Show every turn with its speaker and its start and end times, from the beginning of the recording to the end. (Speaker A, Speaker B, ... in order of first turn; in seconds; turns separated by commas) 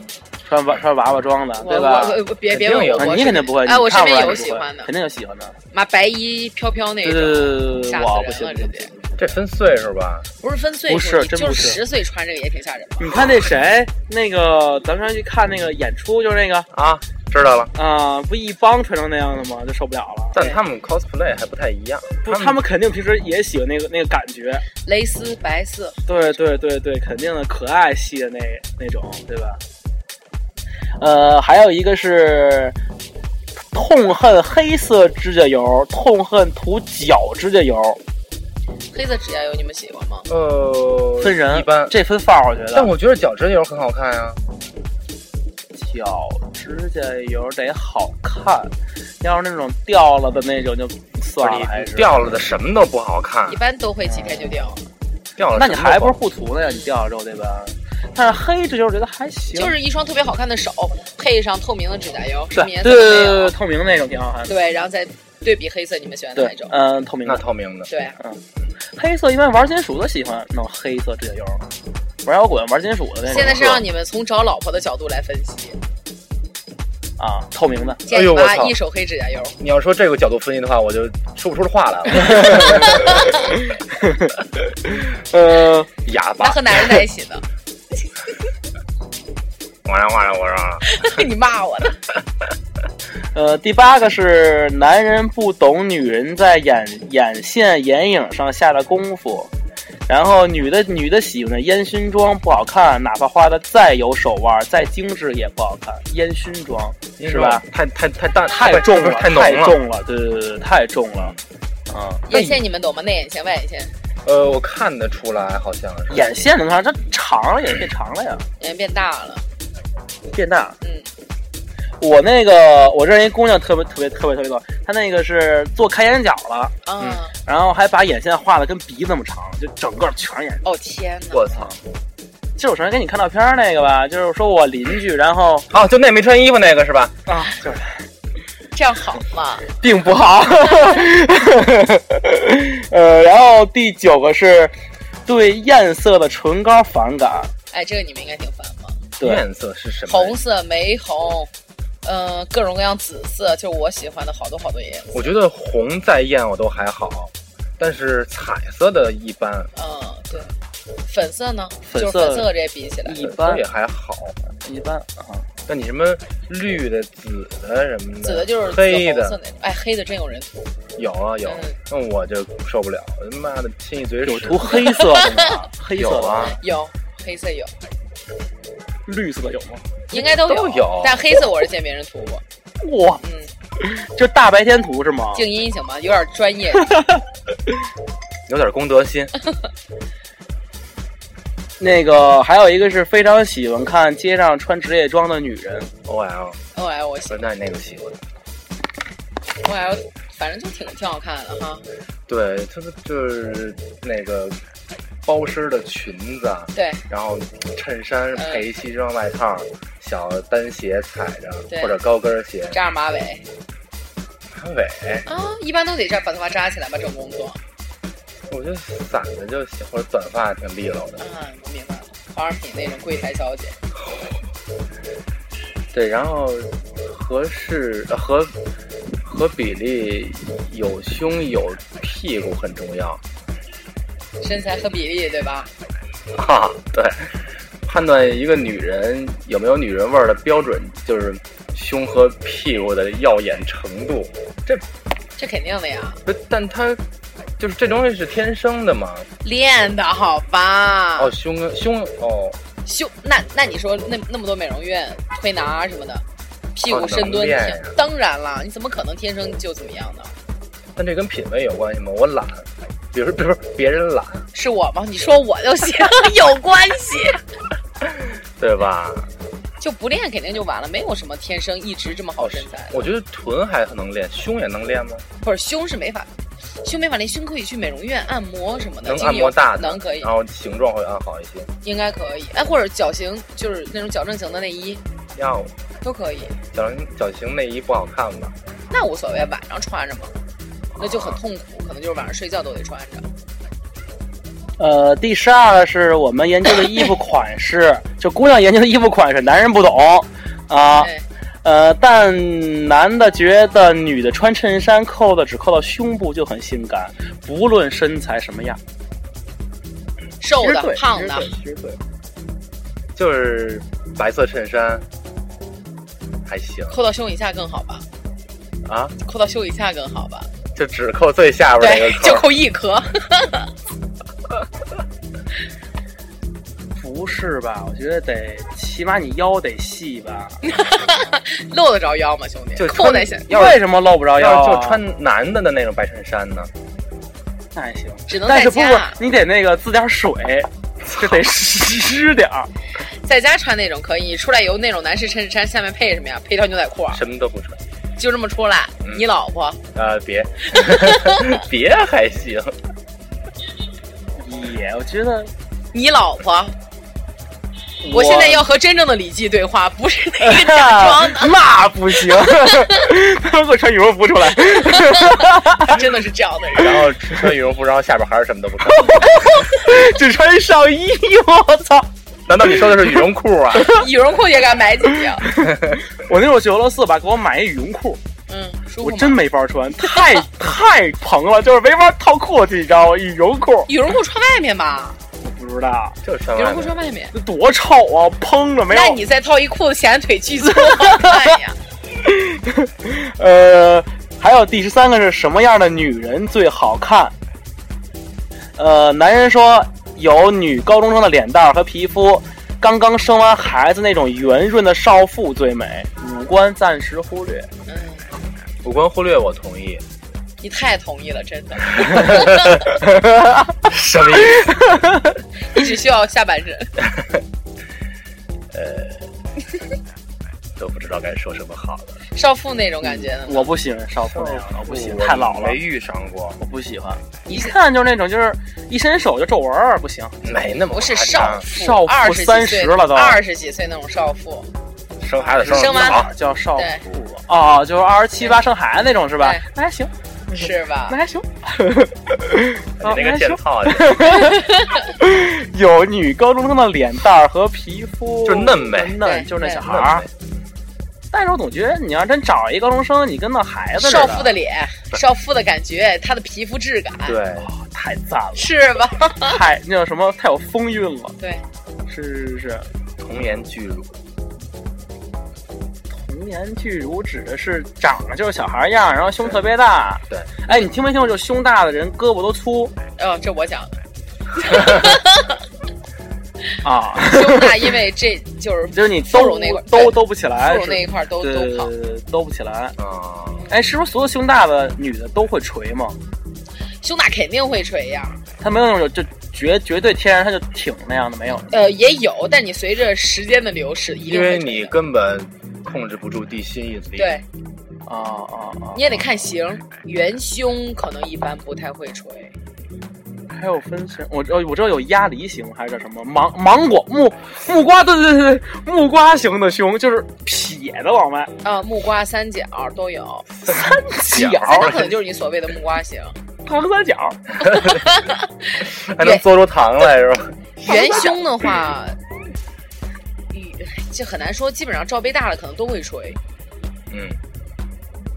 Speaker A: 0.4-2.2, Speaker B: 1.6-4.9, Speaker C: 2.5-3.3, Speaker A: 3.0-5.6, Speaker B: 5.7-8.9, Speaker A: 7.0-9.2, Speaker C: 9.2-10.3, Speaker B: 10.4-13.1, Speaker A: 10.9-11.8, Speaker A: 13.0-16.7, Speaker C: 16.7-17.7, Speaker A: 17.7-20.4, Speaker C: 20.3-22.6, Speaker B: 20.3-20.6, Speaker A: 22.2-24.6, Speaker B: 24.8-26.3, Speaker A: 26.1-29.6, Speaker A: 31.0-32.8, Speaker A: 33.7-38.0, Speaker B: 38.9-40.3, Speaker C: 40.3-41.9, Speaker A: 41.2-42.9, Speaker C: 42.7-44.4, Speaker A: 45.8-52.4, Speaker C: 51.4-53.6, Speaker B: 53.5-54.9, Speaker A: 54.0-54.7, Speaker C: 55.4-56.2, Speaker A: 55.5-59.8, Speaker B: 56.6-56.9, Speaker B: 59.5-63.5, Speaker A: 62.5-64.5, Speaker B: 64.5-66.8, Speaker A: 66.3-67.4, Speaker C: 67.2-67.9, Speaker B: 67.9-68.2, Speaker A: 68.9-71.6, Speaker A: 72.2-73.6, Speaker B: 73.2-75.8, Speaker C: 73.3-73.8, Speaker A: 77.2-78.0, Speaker B: 78.0-79.6, Speaker C: 78.1-78.8, Speaker C: 79.6-83.2, Speaker A: 82.2-85.9, Speaker B: 82.4-83.2, Speaker C: 86.0-86.8, Speaker B: 86.4-87.4, Speaker C: 89.8-91.0, Speaker B: 90.8-92.0, Speaker A: 93.3-99.5, Speaker A: 100.1-107.6, Speaker C: 107.2-109.8, Speaker A: 108.5-111.3, Speaker A: 111.9-112.2, Speaker B: 112.3-113.9, Speaker C: 112.3-112.6, Speaker C: 114.2-116.3, Speaker A: 116.1-118.4, Speaker B: 118.6-119.4, Speaker A: 120.3-120.8, Speaker B: 120.8-121.1, Speaker A: 122.0-126.7, Speaker B: 126.8-127.3, Speaker C: 127.0-127.2, Speaker A: 127.5-130.6, Speaker B: 130.6-131.5, Speaker C: 131.3-131.7, Speaker A: 132.6-135.7, Speaker C: 135.7-137.1, Speaker A: 137.3-138.0, Speaker B: 138.7-139.7, Speaker A: 139.8-144.7, Speaker A: 145.2-147.5, Speaker B: 147.7-149.0, Speaker C: 149.2-150.4, Speaker B: 150.1-151.5, Speaker B: 152.0-155.3, Speaker C: 155.1-159.7, Speaker B: 159.7-160.5, Speaker B: 161.0-163.2, Speaker A: 161.8-162.5, Speaker A: 163.0-163.6, Speaker C: 163.2-164.4, Speaker A: 164.6-165.5, Speaker C: 165.7-169.4, Speaker B: 168.2-170.7, Speaker C: 170.9-174.8, Speaker B: 171.4-171.8, Speaker A: 174.2-176.6, Speaker C: 175.9-176.6, Speaker B: 176.5-177.7, Speaker A: 179.1-179.8, Speaker B: 180.1-182.4, Speaker C: 180.2-181.2, Speaker A: 182.8-183.2, Speaker B: 183.2-183.5, Speaker A: 183.8-185.4, Speaker B: 185.3-187.0, Speaker C: 188.5-189.3, Speaker A: 191.8-195.9, Speaker C: 196.0-196.6, Speaker B: 196.7-197.5, Speaker C: 197.3-198.2, Speaker B: 199.6-201.8, Speaker C: 202.3-204.6, Speaker C: 205.2-212.8, Speaker B: 206.7-207.0, Speaker B: 208.3-208.6, Speaker B: 211.7-212.0, Speaker B: 212.7-213.4, Speaker C: 214.5-215.3, Speaker B: 215.2-217.6, Speaker C: 218.5-221.2, Speaker B: 221.2-223.8, Speaker C: 225.9-228.5, Speaker C: 229.2-233.2, Speaker B: 234.4-235.7, Speaker C: 236.3-237.3, Speaker C: 237.8-244.8, Speaker B: 245.3-246.2, Speaker C: 246.2-247.0, Speaker C: 247.6-249.3, Speaker B: 249.4-251.3, Speaker C: 251.2-252.6, Speaker B: 252.8-256.2, Speaker B: 256.7-260.3, Speaker C: 256.9-258.0, Speaker C: 260.9-264.5, Speaker B: 264.5-267.4, Speaker C: 268.6-269.3, Speaker B: 269.8-273.1, Speaker C: 272.4-275.2, Speaker B: 275.4-276.3, Speaker B: 276.8-280.3, Speaker C: 279.0-281.7, Speaker B: 281.8-285.0, Speaker C: 285.4-285.7, Speaker B: 286.0-286.6, Speaker C: 286.7-288.5, Speaker B: 288.9-290.3, Speaker C: 290.9-291.4, Speaker B: 291.0-293.3, Speaker A: 294.8-301.1, Speaker B: 301.0-301.2, Speaker A: 301.6-308.8, Speaker B: 310.4-311.5, Speaker A: 310.6-312.0, Speaker C: 313.1-315.1, Speaker C: 316.4-317.0, Speaker B: 316.9-318.1, Speaker C: 318.8-319.1, Speaker B: 319.2-320.5, Speaker C: 320.7-322.5, Speaker B: 321.8-323.7, Speaker A: 326.9-330.6, Speaker B: 330.6-333.5, Speaker C: 332.8-333.8, Speaker A: 333.5-335.0, Speaker C: 334.4-336.7, Speaker A: 337.7-342.7, Speaker B: 338.3-339.2, Speaker C: 341.0-341.5, Speaker B: 343.1-347.2, Speaker C: 347.1-347.8, Speaker B: 348.2-349.8, Speaker C: 349.9-352.8, Speaker B: 350.7-351.6, Speaker A: 354.4-355.5, Speaker B: 355.9-356.7, Speaker A: 358.0-358.7, Speaker B: 358.1-361.6, Speaker A: 360.4-366.0, Speaker B: 362.2-363.1, Speaker B: 364.6-367.1, Speaker C: 366.8-369.2, Speaker A: 368.8-372.1, Speaker C: 372.5-374.0, Speaker A: 372.7-373.2, Speaker B: 373.9-375.4, Speaker A: 375.4-378.2, Speaker C: 375.6-376.0, Speaker B: 378.5-379.4, Speaker A: 379.0-383.9, Speaker B: 380.0-380.4, Speaker B: 383.9-385.2, Speaker A: 385.4-386.1, Speaker C: 386.2-386.9, Speaker B: 386.5-387.3, Speaker A: 387.3-389.2, Speaker B: 388.9-391.8, Speaker A: 390.7-391.6, Speaker A: 392.2-397.3, Speaker A: 398.8-407.7, Speaker B: 407.9-408.3, Speaker C: 408.8-410.0, Speaker B: 410.6-412.5, Speaker C: 412.1-412.7, Speaker A: 413.0-413.7, Speaker C: 413.8-414.8, Speaker A: 414.5-415.0, Speaker B: 415.6-416.9, Speaker C: 418.7-419.3, Speaker C: 420.8-422.2, Speaker B: 422.3-423.7, Speaker A: 423.0-425.8, Speaker C: 424.2-426.6, Speaker A: 426.6-430.4, Speaker B: 427.5-427.7, Speaker C: 430.4-431.7, Speaker B: 430.9-434.7, Speaker A: 431.6-433.4, Speaker C: 435.2-436.3, Speaker A: 435.6-450.2, Speaker B: 435.7-437.0, Speaker B: 439.4-439.6, Speaker B: 440.5-441.2, Speaker C: 443.0-444.4, Speaker C: 448.4-449.2, Speaker B: 449.2-449.8, Speaker C: 449.8-450.3, Speaker A: 451.3-454.6, Speaker B: 453.9-457.4, Speaker C: 457.2-457.7, Speaker A: 457.6-458.7, Speaker B: 458.5-459.6, Speaker A: 459.3-461.3, Speaker B: 461.4-461.6, Speaker A: 462.1-462.9, Speaker C: 463.2-464.1, Speaker A: 466.1-472.9, Speaker B: 473.2-473.9, Speaker B: 474.6-475.6, Speaker A: 476.8-477.9, Speaker B: 477.2-481.9, Speaker A: 478.9-482.9, Speaker C: 483.0-483.7, Speaker A: 483.7-486.2, Speaker B: 487.0-488.4, Speaker A: 488.6-491.8, Speaker B: 491.7-494.9, Speaker C: 494.2-497.4, Speaker B: 497.2-497.4, Speaker A: 498.1-499.0, Speaker B: 498.9-502.5, Speaker A: 503.5-511.5, Speaker B: 511.6-513.5, Speaker A: 513.6-515.0, Speaker C: 514.3-515.1, Speaker B: 514.5-516.4, Speaker A: 516.6-517.4, Speaker B: 517.7-518.4, Speaker C: 518.8-521.3, Speaker B: 520.8-522.2, Speaker B: 523.5-526.4, Speaker C: 527.1-527.4